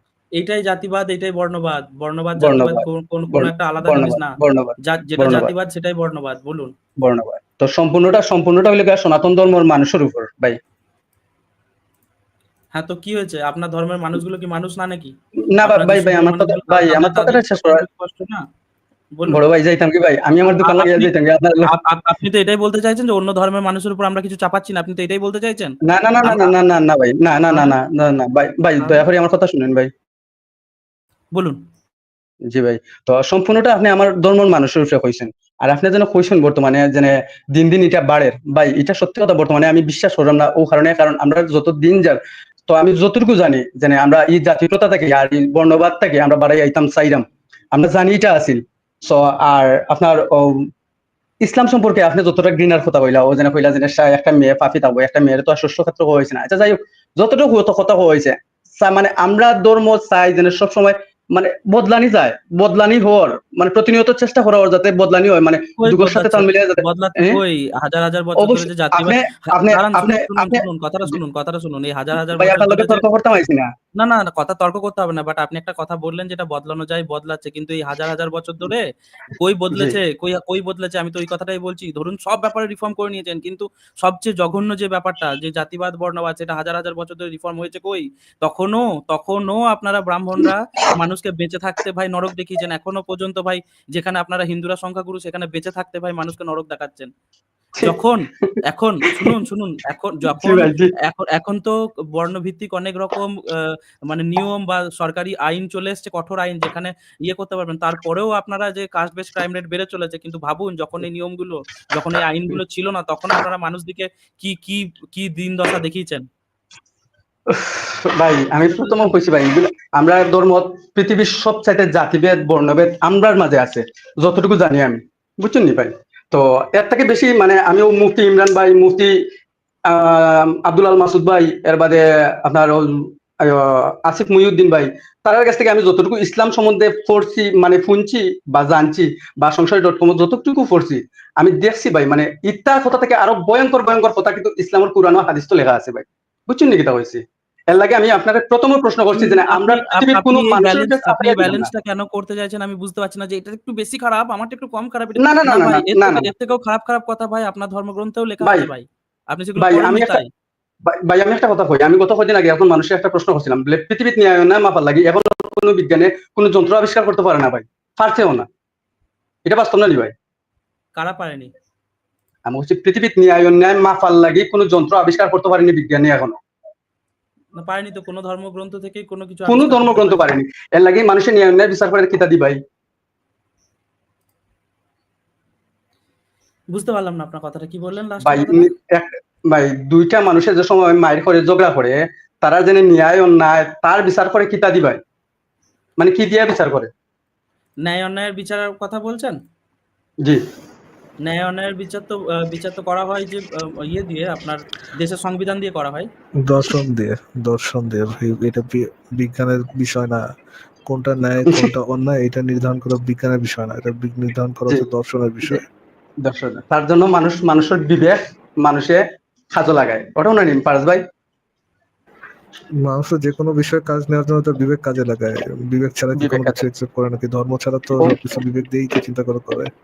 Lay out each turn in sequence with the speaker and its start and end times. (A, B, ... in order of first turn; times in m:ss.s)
0:00.4-0:06.7 A
0:02.4-0:05.5 B
0:07.0-0:10.6 B
0:12.7-0:15.1 A
0:15.5-0:17.8 B
0:15.6-0:18.4 A
0:19.3-0:21.7 B
0:20.6-0:21.1 A
0:21.6-0:26.5 A
0:25.8-0:29.9 B
0:27.5-0:27.8 A
0:31.3-0:31.6 A
0:32.5-0:50.7 B
0:51.4-1:07.4 B
1:05.8-1:13.0 A
1:08.4-1:11.2 B
1:12.3-1:13.7 B
1:14.0-1:37.1 A
1:37.8-1:38.6 B
1:37.8-1:56.2 A
1:40.3-1:40.9 B
1:57.5-2:09.1 B
2:09.9-2:31.7 B
2:29.1-2:40.3 A
2:35.2-2:36.3 B
2:38.4-2:38.7 B
2:39.6-2:40.2 B
2:40.8-2:48.5 B
2:49.4-2:50.1 B
2:51.0-2:51.5 A
2:52.4-2:56.3 B
2:57.6-3:00.3 A
2:59.5-3:02.6 B
3:06.7-3:08.7 A
3:08.2-3:15.0 B
3:16.0-3:16.9 B
3:17.8-3:19.4 A
3:21.2-3:26.1 A
3:26.4-3:30.2 C
3:30.9-3:35.6 C
3:31.5-3:31.7 B
3:36.2-3:41.0 B
3:42.8-3:49.7 C
3:46.2-3:46.6 B